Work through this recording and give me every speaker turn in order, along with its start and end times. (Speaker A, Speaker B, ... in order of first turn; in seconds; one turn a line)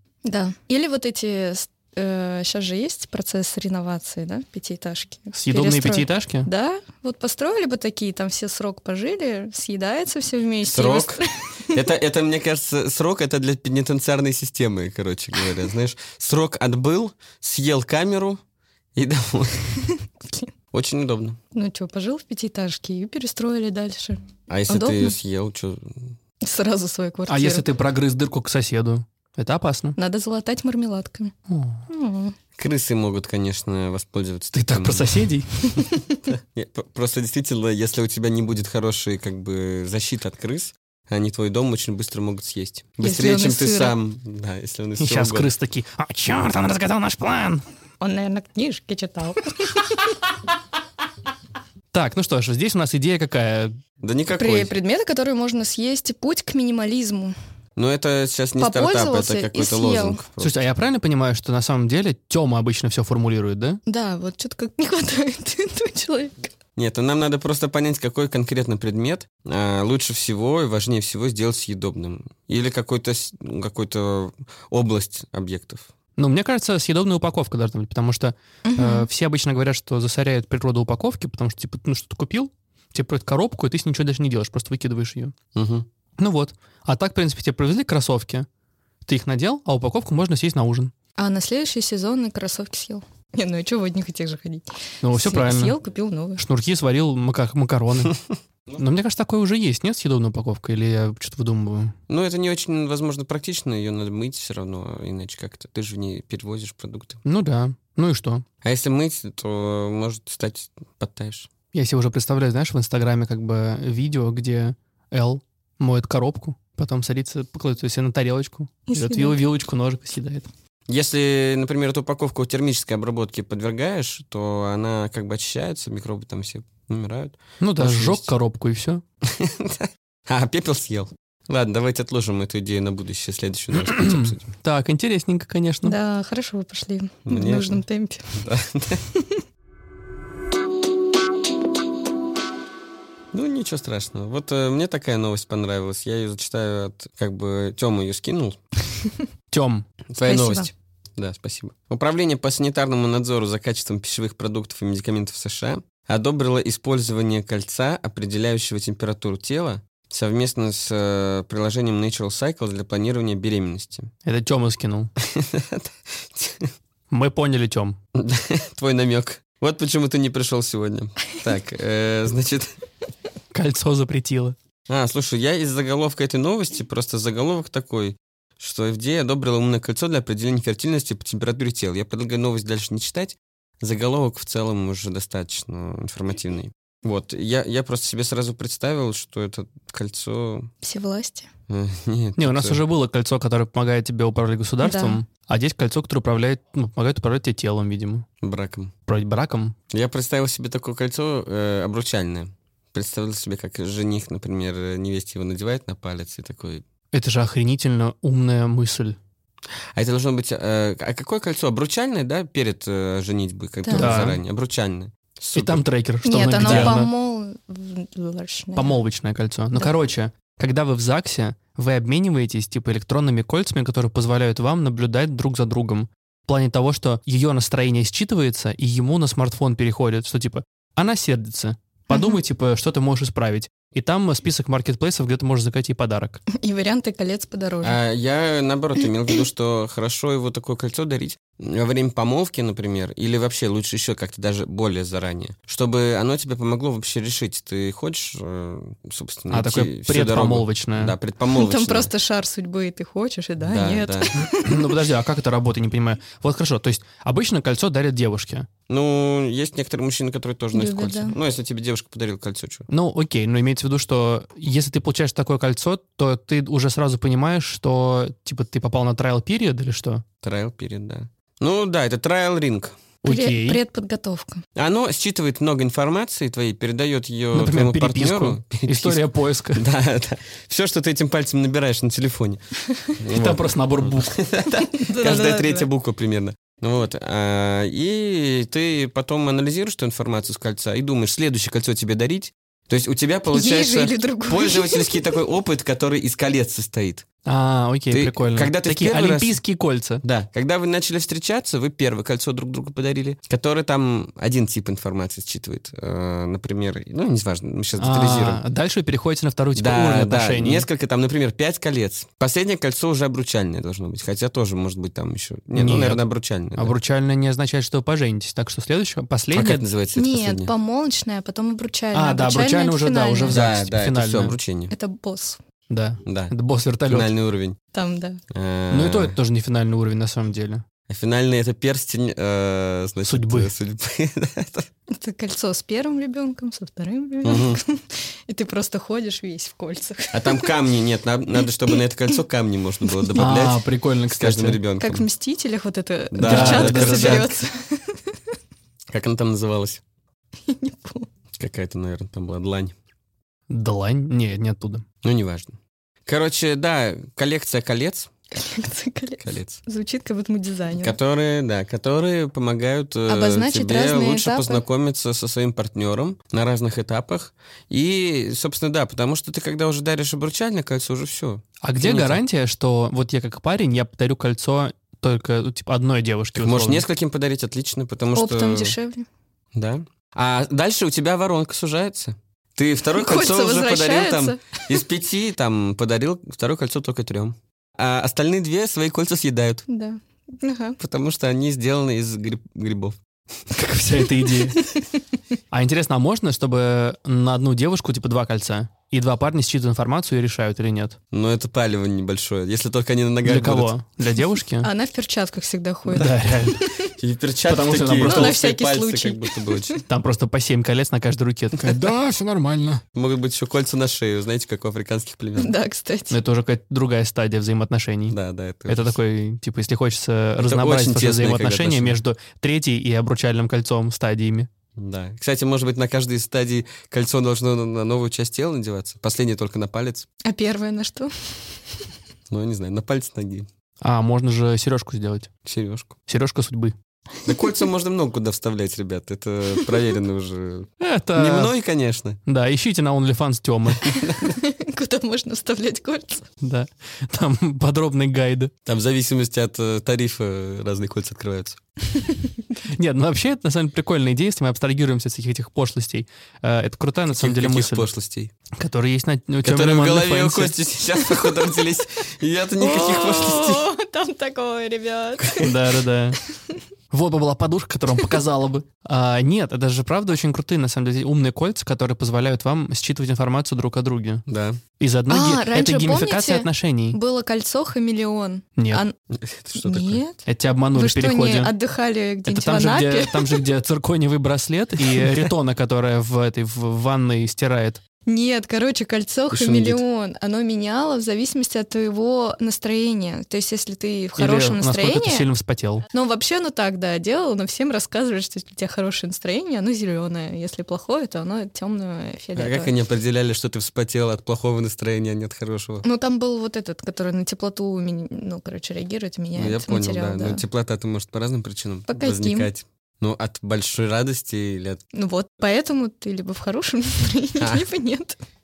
Speaker A: 0.2-11.7
Speaker B: 5.3-6.5
Speaker C: 10.7-18.4
Speaker C: 18.9-19.7
Speaker C: 20.7-21.4
Speaker A: 21.5-25.1
Speaker C: 24.5-26.1
Speaker A: 26.4-27.7
Speaker B: 27.3-29.9
Speaker A: 29.9-31.3
Speaker B: 31.5-31.8
Speaker A: 31.9-32.3
Speaker C: 32.6-35.3
Speaker B: 34.5-35.5
Speaker C: 36.3-45.5
Speaker A: 43.0-43.9
Speaker B: 45.0-47.6
Speaker A: 48.0-50.0
Speaker B: 51.9-53.8
Speaker C: 54.0-54.7
Speaker A: 54.4-57.3
Speaker C: 57.8-60.6
Speaker A: 58.6-60.2
Speaker B: 60.4-63.8
Speaker A: 63.9-66.5
Speaker C: 66.8-75.9
Speaker B: 76.2-85.3
Speaker A: 78.6-79.1
Speaker C: 85.5-85.9
Speaker B: 86.2-88.5
Speaker B: 89.0-90.9
Speaker A: 91.2-96.4
Speaker B: 95.0-95.7
Speaker B: 96.4-98.2
Speaker B: 98.8-101.9
Speaker C: 102.1-107.2
Speaker B: 107.2-108.4
Speaker C: 108.6-111.5
Speaker B: 111.7-120.5
Speaker A: 118.9-119.4
Speaker C: 120.9-128.3
Speaker B: 127.6-129.0
Speaker C: 129.2-134.5
Speaker B: 133.8-135.9
Speaker A: 135.8-138.3
Speaker C: 137.2-137.8
Speaker C: 138.3-139.0
Speaker C: 143.3-148.6
Speaker B: 149.5-149.8
Speaker C: 150.1-164.1
Speaker A: 150.2-150.7
Speaker B: 164.2-165.1
Speaker C: 165.2-166.7
Speaker B: 167.1-168.0
Speaker C: 168.1-172.7
Speaker B: 173.5-174.6
Speaker C: 174.9-190.7
Speaker A: 190.8-191.5
Speaker C: 191.7-192.8
Speaker B: 192.4-198.2
Speaker A: 194.8-195.2
Speaker C: 198.4-198.9
Speaker B: 199.1-199.7
Speaker C: 199.9-206.8
Speaker B: 207.1-209.2
Speaker C: 209.9-215.8
Speaker A: 213.8-214.3
Speaker B: 213.9-214.4
Speaker B: 215.5-217.1
Speaker A: 216.2-219.0
Speaker C: 216.6-217.0
Speaker B: 218.7-236.4
Speaker A: 232.1-232.4
Speaker A: 236.5-238.0
Speaker C: 237.8-252.1
Speaker B: 249.5-251.1
Speaker A: 251.5-255.0
Speaker C: 253.6-254.3
Speaker B: 254.4-258.7
Speaker C: 258.9-262.9
Speaker A: 260.7-261.3
Speaker B: 262.9-270.2
Speaker C: 270.4-273.0
Speaker B: 273.2-273.8
Speaker A: 273.2-274.6
Speaker C: 274.8-282.6
Speaker B: 277.5-279.8
Speaker C: 283.1-297.2
Speaker B: 283.3-284.4
Speaker A: 284.8-285.9
Speaker A: 293.5-295.3
Speaker B: 297.4-300.2
Speaker C: 298.1-299.6
Speaker C: 300.2-308.6
Speaker B: 308.0-310.9
Speaker C: 309.7-316.9
Speaker B: 315.7-316.2
Speaker B: 316.7-319.9
Speaker C: 319.5-320.7
Speaker A: 320.1-323.6
Speaker B: 322.1-324.6
Speaker C: 323.5-324.9
Speaker A: 324.9-325.6
Speaker B: 325.9-327.3
Speaker C: 326.2-326.5
Speaker C: 327.1-327.8
Speaker A: 327.9-328.4
Speaker C: 328.5-329.4
Speaker B: 328.9-330.8
Speaker C: 331.1-334.9
Speaker B: 333.2-333.7
Speaker A: 335.1-340.7
Speaker C: 337.4-337.8
Speaker C: 340.3-345.2
Speaker B: 343.4-344.8
Speaker A: 345.0-348.3
Speaker C: 346.3-347.5
Speaker B: 346.4-347.5
Speaker C: 349.1-350.0
Speaker A: 350.6-351.3
Speaker C: 351.6-352.9
Speaker B: 353.7-355.0
Speaker C: 355.2-355.7
Speaker C: 356.2-358.3
Speaker A: 358.5-361.2
Speaker C: 359.4-359.8
Speaker C: 360.9-372.4
Speaker A: 363.3-364.8
Speaker B: 371.8-377.1
Speaker C: 376.5-378.9
Speaker A: 378.3-379.2
Speaker C: 379.7-389.8
Speaker A: 383.1-385.0
Speaker A: 389.9-391.0
Speaker C: 391.0-393.2
Speaker B: 393.7-394.8
Speaker B: 395.7-401.2
Speaker C: 401.3-403.9
Speaker B: 403.4-404.9
Speaker A: 404.8-407.1
Speaker B: 406.1-406.8
Speaker C: 407.2-410.0
Speaker B: 407.7-408.6
Speaker A: 408.2-410.0
Speaker B: 410.1-413.0
Speaker C: 413.1-415.7
Speaker A: 415.6-416.4
Speaker B: 416.3-418.4
Speaker C: 418.3-419.1
Speaker B: 418.9-424.7
Speaker C: 420.6-422.1
Speaker C: 425.0-430.3
Speaker A: 430.4-432.0
Speaker C: 432.5-433.7
Speaker B: 434.0-435.5
Speaker C: 435.6-436.1
Speaker B: 436.3-436.9
Speaker C: 437.4-442.4
Speaker B: 441.0-441.7
Speaker B: 442.4-444.1
Speaker C: 444.0-444.5
Speaker A: 444.4-446.5
Speaker B: 446.6-448.7
Speaker C: 448.8-451.8
Speaker B: 452.9-458.1
Speaker C: 457.3-458.5
Speaker B: 458.8-460.7
Speaker C: 459.6-463.9
Speaker A: 462.8-465.6
Speaker C: 465.4-465.7
Speaker B: 465.6-466.4
Speaker B: 467.1-474.4
Speaker C: 474.5-474.8
Speaker B: 475.0-477.2
Speaker A: 475.3-479.1
Speaker B: 478.8-479.0
Speaker C: 479.3-480.2
Speaker A: 479.8-483.6
Speaker B: 480.4-481.7
Speaker B: 482.5-488.0
Speaker A: 488.2-495.4
Speaker C: 489.5-490.0
Speaker B: 494.4-496.0
Speaker A: 496.1-502.9
Speaker C: 502.6-506.0
Speaker A: 506.0-510.6
Speaker C: 509.5-515.0
Speaker A: 512.1-512.7
Speaker A: 515.1-518.4
Speaker C: 517.6-517.9